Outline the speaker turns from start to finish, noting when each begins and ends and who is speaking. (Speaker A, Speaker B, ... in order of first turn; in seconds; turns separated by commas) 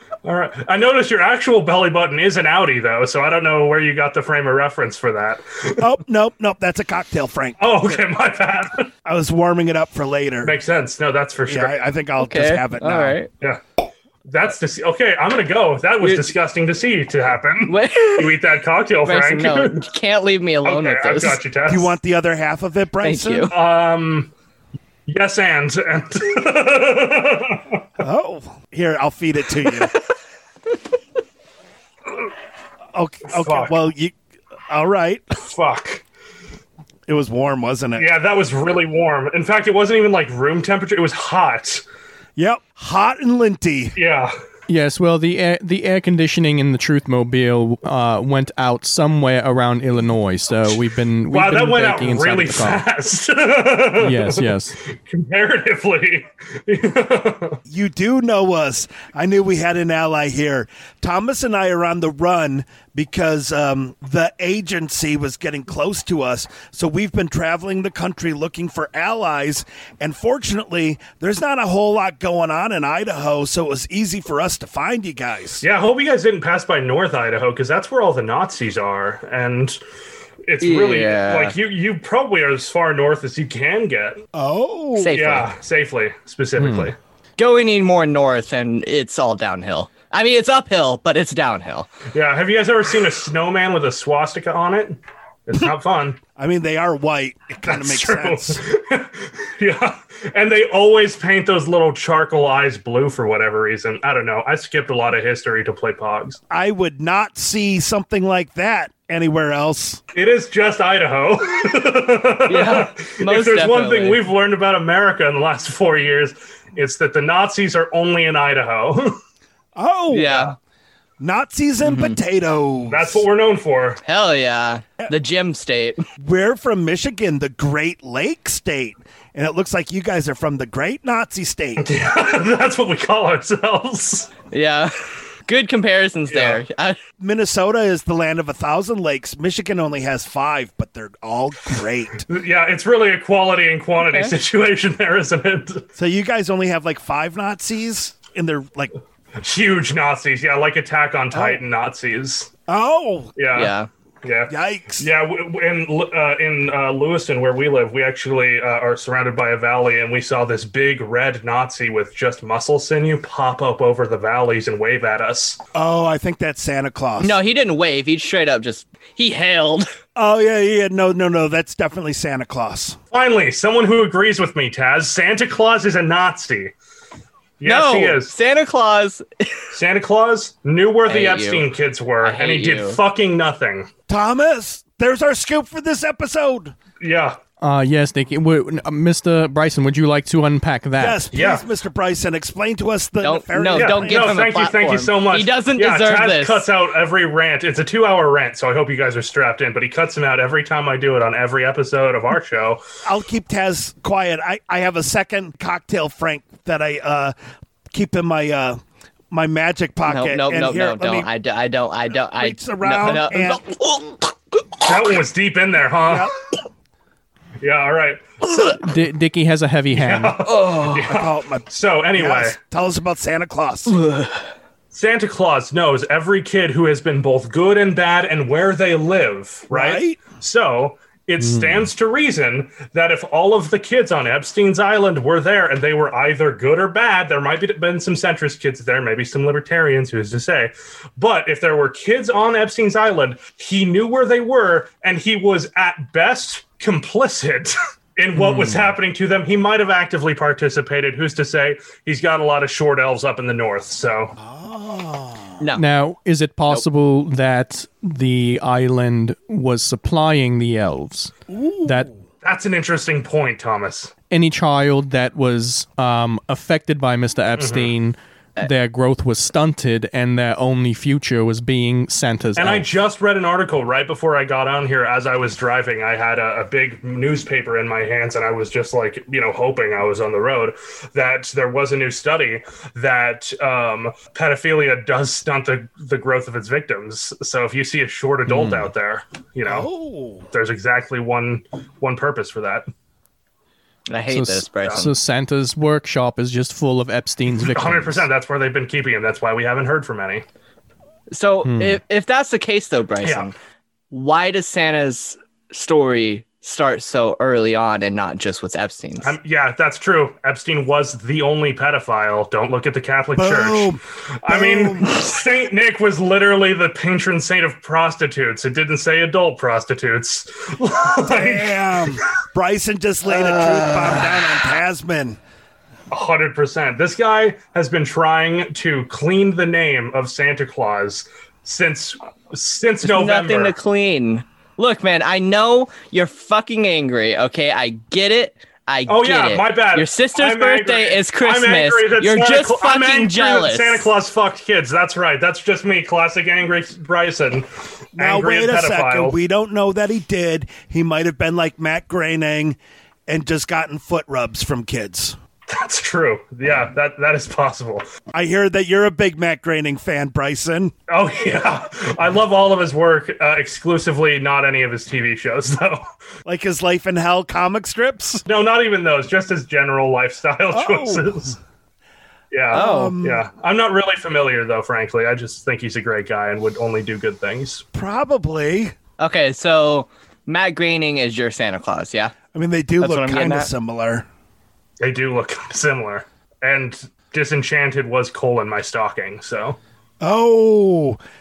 Speaker A: 0.2-5.8, Speaker B: 5.8-7.9, Speaker A: 7.6-8.9, Speaker B: 9.1-10.6, Speaker A: 10.4-11.9, Speaker B: 11.5-13.2, Speaker C: 12.2-13.3, Speaker A: 14.3-19.9, Speaker C: 16.0-16.3, Speaker C: 17.7-18.4, Speaker C: 19.1-21.4, Speaker A: 20.6-22.0, Speaker B: 21.7-23.5, Speaker C: 23.0-23.5, Speaker A: 23.5-24.3, Speaker A: 25.1-27.8, Speaker B: 28.0-29.9, Speaker B: 32.9-34.1, Speaker A: 33.3-33.8, Speaker B: 34.7-35.3, Speaker A: 35.4-36.0, Speaker B: 37.1-38.1, Speaker A: 38.0-41.8, Speaker B: 42.4-44.0, Speaker A: 44.0-44.3, Speaker D: 44.7-52.9, Speaker A: 51.3-57.6, Speaker D: 54.0-54.8, Speaker B: 57.7-75.6, Speaker A: 75.6-79.8, Speaker A: 80.5-84.2, Speaker C: 80.6-81.5, Speaker B: 84.3-85.2, Speaker C: 85.0-85.5, Speaker A: 85.1-87.0, Speaker D: 86.6-86.9, Speaker C: 87.4-91.9, Speaker A: 92.1-96.2, Speaker B: 96.4-98.6, Speaker A: 97.7-106.4, Speaker B: 106.5-110.0, Speaker A: 110.1-119.2, Speaker C: 112.5-114.2, Speaker B: 119.8-120.5, Speaker C: 120.1-120.5, Speaker B: 121.2-123.2, Speaker C: 121.8-122.2, Speaker A: 122.9-124.0, Speaker C: 124.0-126.0, Speaker B: 126.2-132.0, Speaker A: 131.8-134.3, Speaker C: 134.5-134.9, Speaker C: 135.5-137.0, Speaker A: 136.3-136.6, Speaker B: 137.2-142.2, Speaker A: 142.3-145.9, Speaker C: 144.0-144.3, Speaker B: 146.0-148.9, Speaker A: 149.4-152.5, Speaker B: 151.3-151.6, Speaker B: 152.7-153.3, Speaker A: 153.4-165.6, Speaker C: 153.5-153.9, Speaker B: 154.5-155.1, Speaker B: 165.8-167.4, Speaker C: 167.2-169.9, Speaker B: 170.2-173.0, Speaker A: 173.1-176.7, Speaker A: 177.6-178.3, Speaker C: 177.6-179.5, Speaker A: 179.7-183.9, Speaker C: 181.1-181.7, Speaker C: 182.2-183.0, Speaker B: 184.1-186.8, Speaker A: 187.0-187.4, Speaker D: 187.6-191.2, Speaker B: 191.0-194.4, Speaker A: 191.3-191.6, Speaker C: 193.2-196.7, Speaker A: 193.8-202.8, Speaker B: 203.1-207.3, Speaker B: 207.9-208.8, Speaker B: 209.3-211.3, Speaker C: 210.1-214.2, Speaker B: 212.3-213.6, Speaker A: 214.8-216.3, Speaker B: 216.1-216.3, Speaker A: 217.6-218.8, Speaker D: 218.8-220.4, Speaker A: 219.9-222.6, Speaker C: 220.6-220.9, Speaker B: 220.7-224.0, Speaker C: 223.9-224.4, Speaker A: 224.9-254.3, Speaker B: 229.7-230.2, Speaker D: 231.4-231.9, Speaker D: 248.4-248.9, Speaker B: 254.4-255.6, Speaker D: 255.8-261.3, Speaker B: 261.5-262.1, Speaker A: 262.4-264.1, Speaker D: 264.3-272.9, Speaker A: 267.6-267.9, Speaker A: 272.6-289.9, Speaker D: 288.5-288.9, Speaker B: 289.6-290.5, Speaker A: 290.5-292.9, Speaker C: 294.1-295.1, Speaker D: 294.3-298.3, Speaker A: 297.6-300.4, Speaker C: 301.3-303.5, Speaker D: 301.6-302.0, Speaker A: 303.2-303.5, Speaker C: 304.1-309.4, Speaker A: 309.2-322.2, Speaker B: 313.4-315.1, Speaker B: 321.2-325.4, Speaker A: 326.1-333.8, Speaker C: 333.0-344.1, Speaker A: 339.1-349.4, Speaker B: 348.2-355.4, Speaker A: 355.7-358.1, Speaker B: 358.3-360.9, Speaker A: 361.1-366.0, Speaker B: 366.5-368.4, Speaker A: 368.5-371.6, Speaker B: 370.7-371.5, Speaker A: 372.5-377.8, Speaker B: 372.7-373.5, Speaker C: 372.8-373.1, Speaker B: 377.9-378.9, Speaker C: 379.2-382.3, Speaker B: 382.5-384.3, Speaker C: 383.0-383.7, Speaker A: 385.0-389.8, Speaker B: 390.2-391.2